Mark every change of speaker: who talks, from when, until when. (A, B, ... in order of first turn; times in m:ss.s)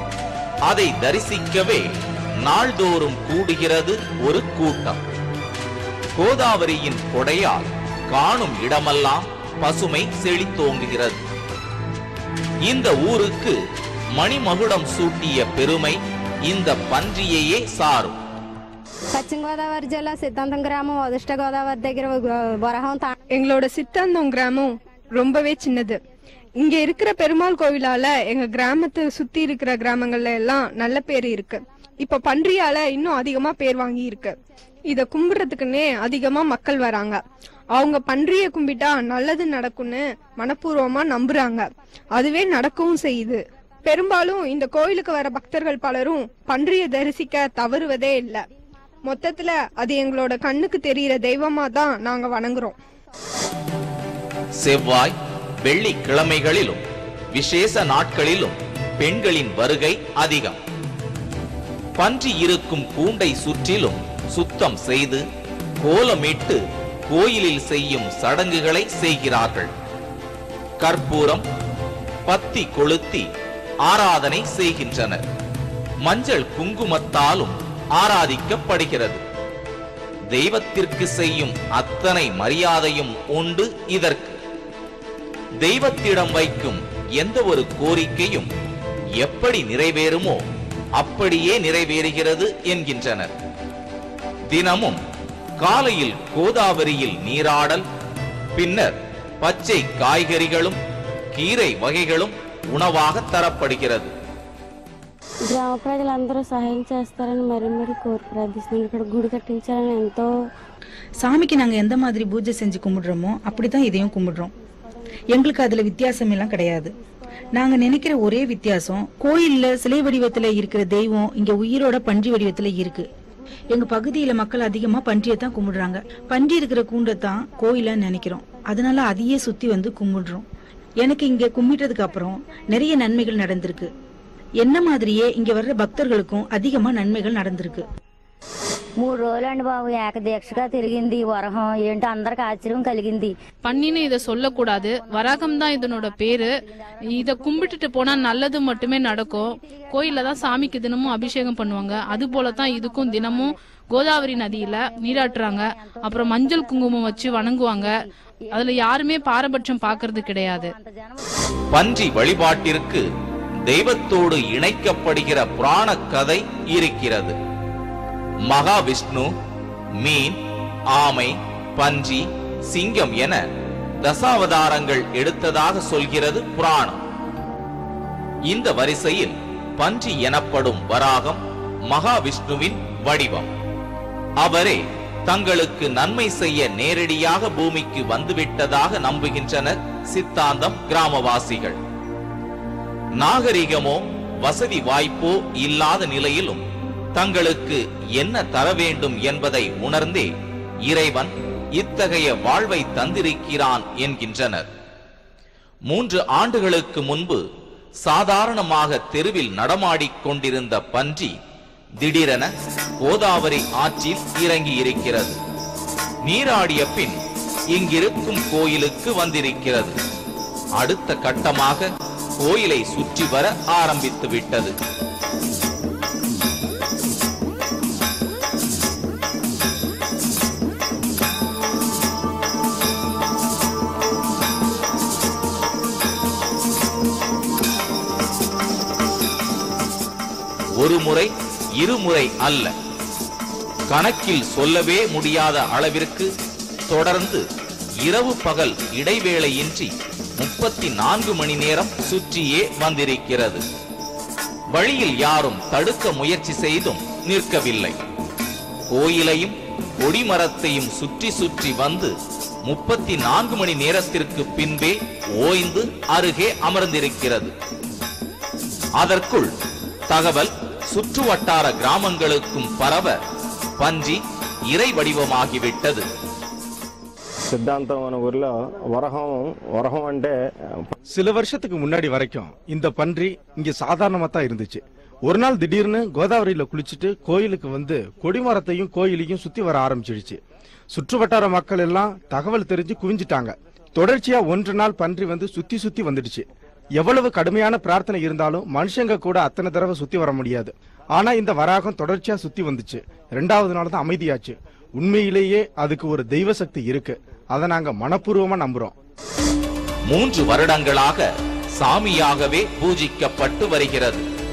0:00.7-0:01.9 A
0:02.4-0:05.0 A
0:06.2-0:11.2 A
0:12.7-0:13.6 A
0:14.2-0:18.2 A
0:19.1-0:23.1 B
0:23.3-0:26.0 C
0:26.6-0:34.4 C
0:34.9-0:37.2 C
0:37.7-0:48.4 C
0:49.0-0:52.8 C
0:54.6-1:00.6 A
1:02.0-1:05.2 A
1:05.8-1:09.7 A
1:10.8-1:11.4 A
1:12.3-1:13.3 A
1:13.9-1:15.3 A
1:16.0-1:19.2 A
1:20.3-1:24.4 A
1:25.6-1:28.5 A
1:29.2-1:30.4 A
1:31.0-1:33.3 A
1:34.5-1:35.0 A
1:35.6-1:37.8 A
1:38.6-1:40.8 A
1:41.3-1:44.1 A
1:45.5-1:50.3 D
1:51.2-1:54.5 E
1:53.7-1:54.4 D
1:55.3-1:56.9 E
1:56.0-1:56.8 D
1:57.5-2:03.1 E
2:03.7-2:10.4 E
2:11.0-2:13.9 E
2:14.6-2:17.9 E
2:19.0-2:23.3 F
2:23.6-2:37.9 G
2:25.5-2:26.4 F
2:27.2-2:28.0 F
2:31.9-2:33.3 F
2:34.4-2:37.9 F
2:38.5-2:40.7 G
2:38.6-2:40.8 F
2:41.7-2:43.0 A
2:43.7-2:47.4 A
2:48.5-2:49.3 A
2:50.0-2:50.4 A
2:50.9-2:53.4 A
2:54.0-2:57.0 A
2:58.5-3:03.5 A
3:04.4-3:11.8 A
3:13.2-3:16.6 A
3:17.1-3:20.3 A
3:20.8-3:24.7 A
3:25.9-3:27.4 A
3:28.0-3:31.3 A
3:32.0-3:35.4 A
3:36.3-3:37.2 A
3:37.7-3:40.0 A
3:40.8-3:44.7 A
4:00.8-4:02.7 A
4:03.9-4:06.3 A
4:06.9-4:07.4 A
4:08.0-4:13.6 A
4:14.7-4:18.0 A
4:18.9-4:22.1 A
4:22.7-4:27.5 A
4:29.0-4:29.5 A
4:30.1-4:33.2 A
4:33.8-4:36.1 A
4:37.5-4:40.9 H
4:41.1-4:50.4 I
4:50.9-4:56.5 I
4:57.0-5:08.9 I
5:10.1-5:14.2 A